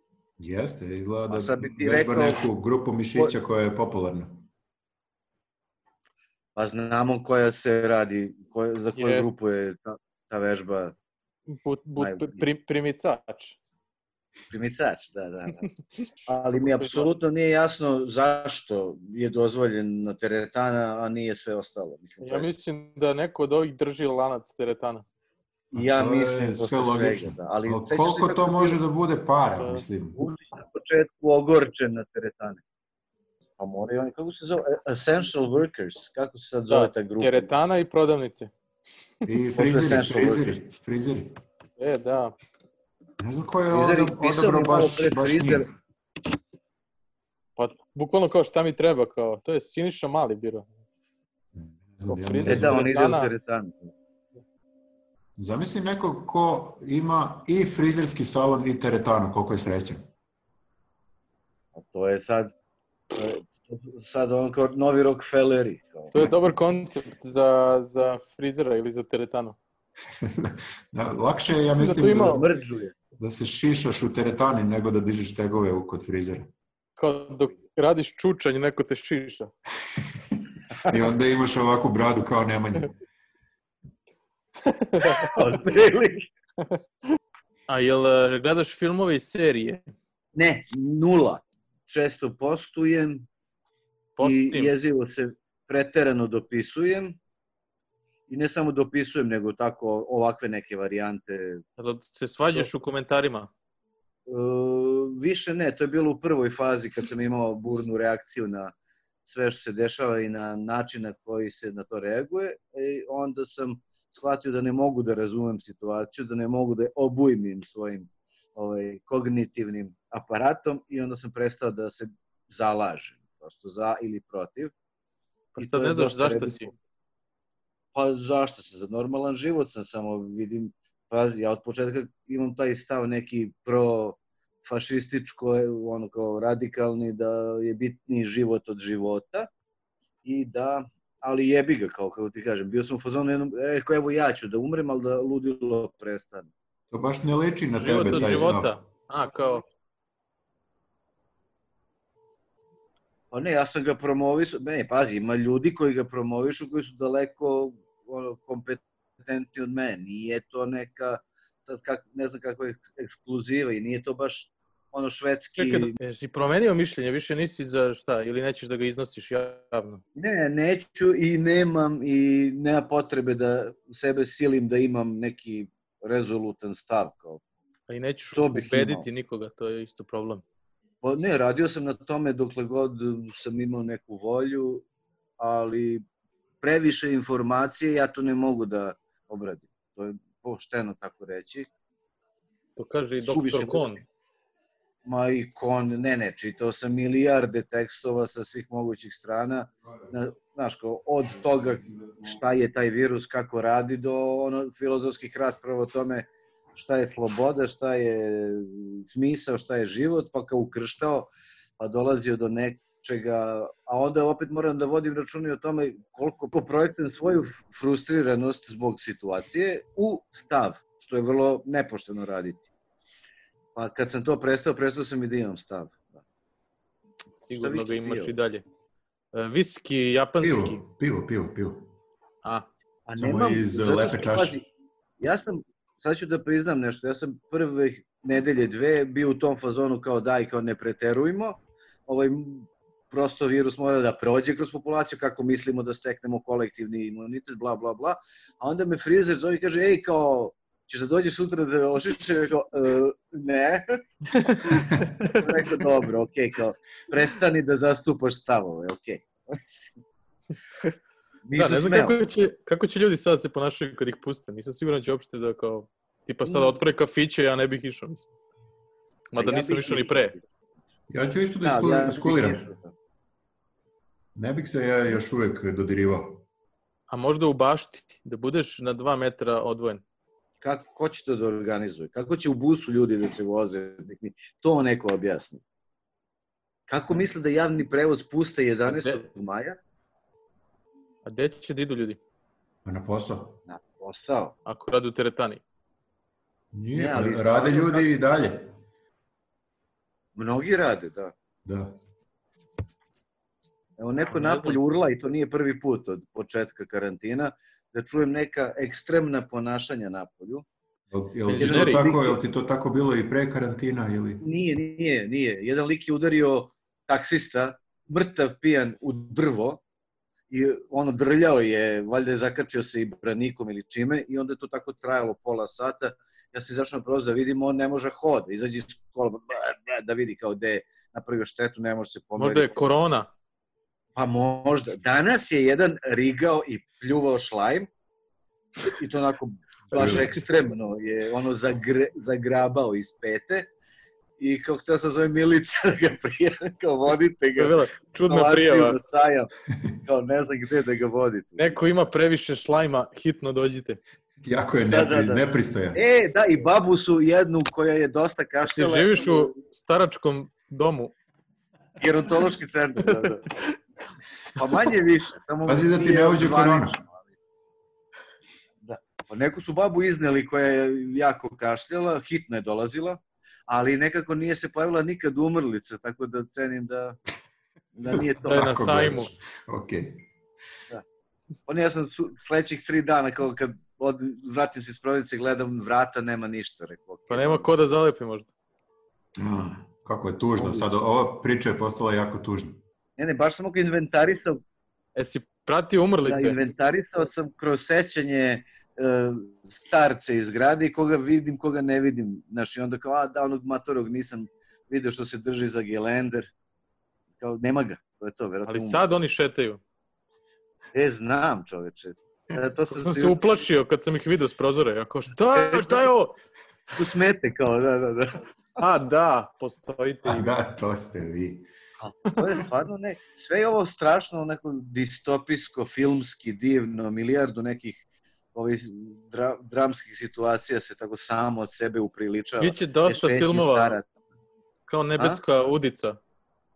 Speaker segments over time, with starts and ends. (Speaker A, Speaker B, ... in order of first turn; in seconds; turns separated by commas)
Speaker A: 0.4-4.5, Speaker B: 1.3-2.5, Speaker B: 6.5-10.9, Speaker C: 8.9-9.3, Speaker C: 11.5-13.6, Speaker B: 12.0-12.4, Speaker B: 14.5-15.6, Speaker C: 16.2-17.1, Speaker B: 16.3-22.5, Speaker C: 22.2-25.0, Speaker B: 25.7-28.8, Speaker A: 25.7-30.2, Speaker C: 29.6-29.8, Speaker B: 30.1-32.6, Speaker B: 33.6-37.5, Speaker C: 36.7-38.5, Speaker A: 39.3-41.3, Speaker B: 39.5-40.6, Speaker C: 41.8-42.3, Speaker A: 43.2-45.8, Speaker B: 43.7-45.6, Speaker C: 47.6-50.7, Speaker A: 51.5-52.9, Speaker C: 52.0-53.3, Speaker B: 52.5-53.9, Speaker A: 55.4-60.0, Speaker B: 61.7-62.5, Speaker B: 63.1-66.2, Speaker C: 66.1-69.6, Speaker A: 70.2-72.4, Speaker C: 71.8-72.4, Speaker B: 72.1-72.9, Speaker A: 73.2-76.5, Speaker C: 77.0-79.5, Speaker A: 79.9-80.2, Speaker A: 80.8-82.9, Speaker C: 84.7-85.4, Speaker B: 85.0-86.3, Speaker C: 87.7-89.8, Speaker B: 90.3-93.3, Speaker C: 94.2-94.7, Speaker B: 94.2-97.2, Speaker B: 98.3-101.6, Speaker C: 101.8-103.5, Speaker B: 104.3-108.7, Speaker B: 109.2-124.7, Speaker C: 125.5-126.7, Speaker B: 125.6-126.7, Speaker B: 127.9-139.5, Speaker B: 140.2-146.5, Speaker A: 146.9-148.7, Speaker C: 147.8-149.6, Speaker B: 153.3-166.0, Speaker C: 165.6-170.0, Speaker B: 170.1-177.4, Speaker C: 177.9-180.4, Speaker B: 178.3-179.1, Speaker B: 181.0-184.8, Speaker B: 185.4-186.0, Speaker B: 186.6-191.7, Speaker C: 192.8-194.0, Speaker B: 193.2-194.0, Speaker B: 195.0-222.7, Speaker A: 201.8-202.3, Speaker B: 223.8-226.2, Speaker C: 227.4-228.6, Speaker B: 227.5-228.3, Speaker C: 229.3-230.8, Speaker A: 230.4-231.9, Speaker B: 233.1-234.6, Speaker A: 233.2-234.6, Speaker B: 235.2-254.0, Speaker C: 254.4-255.4, Speaker A: 254.8-255.1, Speaker B: 255.3-260.0, Speaker B: 261.4-262.2, Speaker C: 261.6-268.2, Speaker B: 266.4-266.8, Speaker C: 269.3-270.3, Speaker B: 269.4-270.4, Speaker A: 271.1-272.6, Speaker B: 271.6-272.9, Speaker A: 274.3-276.4, Speaker C: 277.1-280.0, Speaker B: 280.6-285.6, Speaker B: 286.9-289.8, Speaker C: 288.9-289.2, Speaker C: 291.2-292.2, Speaker A: 292.8-293.6, Speaker B: 293.7-294.5, Speaker C: 294.7-295.6, Speaker A: 296.7-298.7, Speaker B: 297.0-298.1, Speaker B: 300.4-301.3, Speaker A: 301.6-301.9, Speaker B: 304.0-310.6, Speaker C: 304.3-304.8, Speaker A: 311.1-314.4, Speaker C: 311.5-312.0, Speaker B: 311.5-312.4, Speaker B: 314.4-319.8, Speaker B: 320.5-332.9, Speaker C: 332.4-333.3, Speaker B: 334.1-337.9, Speaker B: 338.9-343.7, Speaker A: 339.9-340.3, Speaker B: 344.4-349.5, Speaker C: 347.6-349.0, Speaker B: 350.0-351.8, Speaker C: 351.6-354.0, Speaker A: 354.4-356.0, Speaker B: 354.9-359.5, Speaker C: 358.6-361.1, Speaker B: 362.0-363.5, Speaker C: 363.1-363.7, Speaker B: 364.6-367.2, Speaker A: 365.6-367.0, Speaker B: 368.8-377.2, Speaker B: 377.9-378.7, Speaker A: 378.1-380.2, Speaker C: 378.4-379.3, Speaker B: 381.7-387.9, Speaker C: 387.3-388.5, Speaker A: 389.4-392.8, Speaker B: 390.6-390.9, Speaker B: 393.2-394.6, Speaker C: 395.1-396.6, Speaker B: 396.2-406.5, Speaker B: 407.4-409.1, Speaker C: 408.7-409.8, Speaker B: 410.9-413.4, Speaker C: 412.9-416.3, Speaker B: 415.5-416.1, Speaker B: 416.9-418.4, Speaker C: 418.8-420.5, Speaker A: 420.2-421.6, Speaker B: 422.0-428.0, Speaker B: 428.5-434.1, Speaker C: 432.6-434.0, Speaker C: 434.9-436.2